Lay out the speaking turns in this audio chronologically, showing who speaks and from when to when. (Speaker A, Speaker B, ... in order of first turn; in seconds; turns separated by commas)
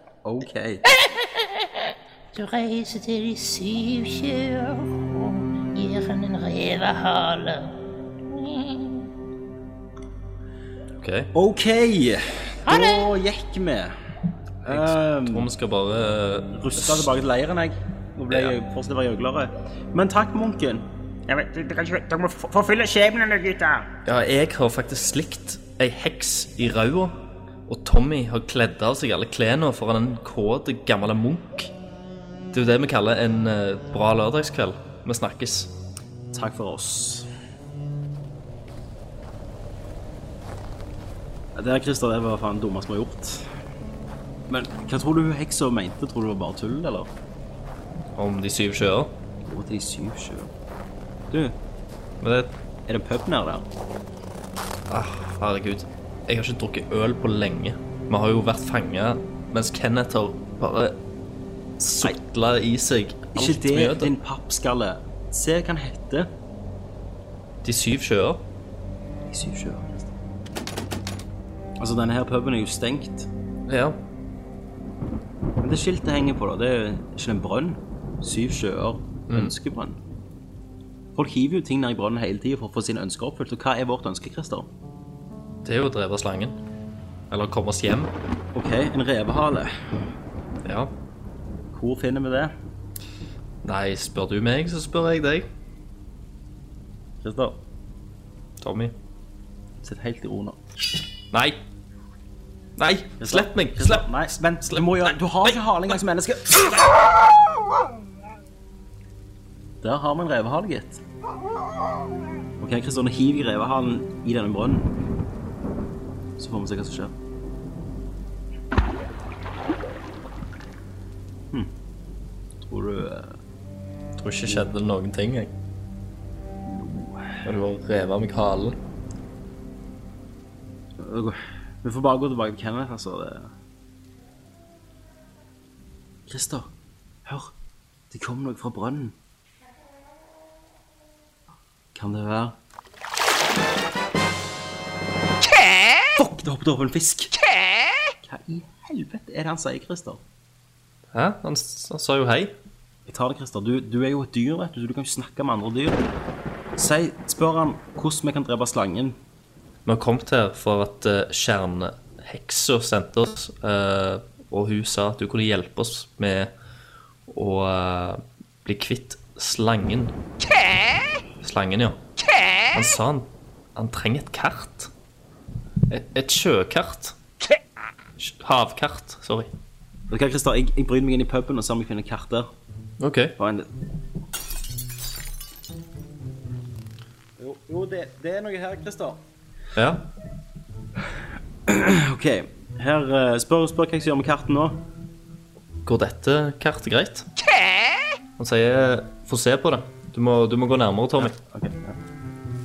Speaker A: 0.2-0.8, Speaker B: 0.8-7.7, Speaker B: 8.3-9.1, Speaker C: 11.0-11.3, Speaker A: 11.3-13.9, Speaker B: 12.7-13.1, Speaker A: 14.6-15.5, Speaker C: 14.7-17.1, Speaker A: 16.5-20.9, Speaker C: 18.3-18.5, Speaker D: 21.3-23.9, Speaker C: 24.1-27.1, Speaker C: 27.7-31.7, Speaker C: 32.5-35.7, Speaker A: 36.3-37.3, Speaker A: 41.5-43.5, Speaker A: 44.5-47.1, Speaker C: 48.1-49.1, Speaker A: 49.4-50.5, Speaker A: 51.3-51.5, Speaker C: 52.2-52.5, Speaker A: 52.9-53.7, Speaker C: 54.9-61.0, Speaker C: 61.8-64.1, Speaker A: 63.3-66.3, Speaker C: 67.6-68.4, Speaker A: 69.3-70.1, Speaker A: 71.8-73.3, Speaker C: 73.7-74.0, Speaker A: 75.6-80.0, Speaker C: 79.3-79.5, Speaker A: 81.1-84.7, Speaker C: 85.6-86.6, Speaker C: 87.3-88.1, Speaker A: 88.5-89.7, Speaker C: 90.6-90.9, Speaker A: 91.7-92.5, Speaker C: 93.6-95.5, Speaker A: 97.2-97.6, Speaker C: 98.6-98.9, Speaker A: 99.8-100.6, Speaker C: 101.3-101.6, Speaker C: 102.8-104.1, Speaker A: 103.2-106.8, Speaker A: 109.8-111.0, Speaker A: 112.6-114.9, Speaker A: 116.4-117.1, Speaker A: 122.6-123.4, Speaker C: 124.2-125.5, Speaker A: 126.7-127.4, Speaker C: 127.4-128.8, Speaker A: 131.0-133.5, Speaker A: 136.3-136.7, Speaker A: 137.2-137.5, Speaker A: 138.1-139.1, Speaker A: 141.9-142.6, Speaker A: 146.1-147.3, Speaker A: 148.2-150.2, Speaker C: 151.1-152.5, Speaker A: 153.1-156.0, Speaker A: 156.8-159.2, Speaker C: 159.8-166.5, Speaker C: 167.3-170.2, Speaker C: 171.4-172.0, Speaker C: 172.7-174.9, Speaker C: 175.9-177.2, Speaker C: 178.2-179.5, Speaker A: 180.1-182.5, Speaker C: 183.0-183.3, Speaker A: 183.4-183.7, Speaker A: 187.4-189.2, Speaker C: 189.8-190.1, Speaker A: 191.7-194.8, Speaker C: 195.8-197.3, Speaker C: 198.4-201.3, Speaker A: 201.2-202.0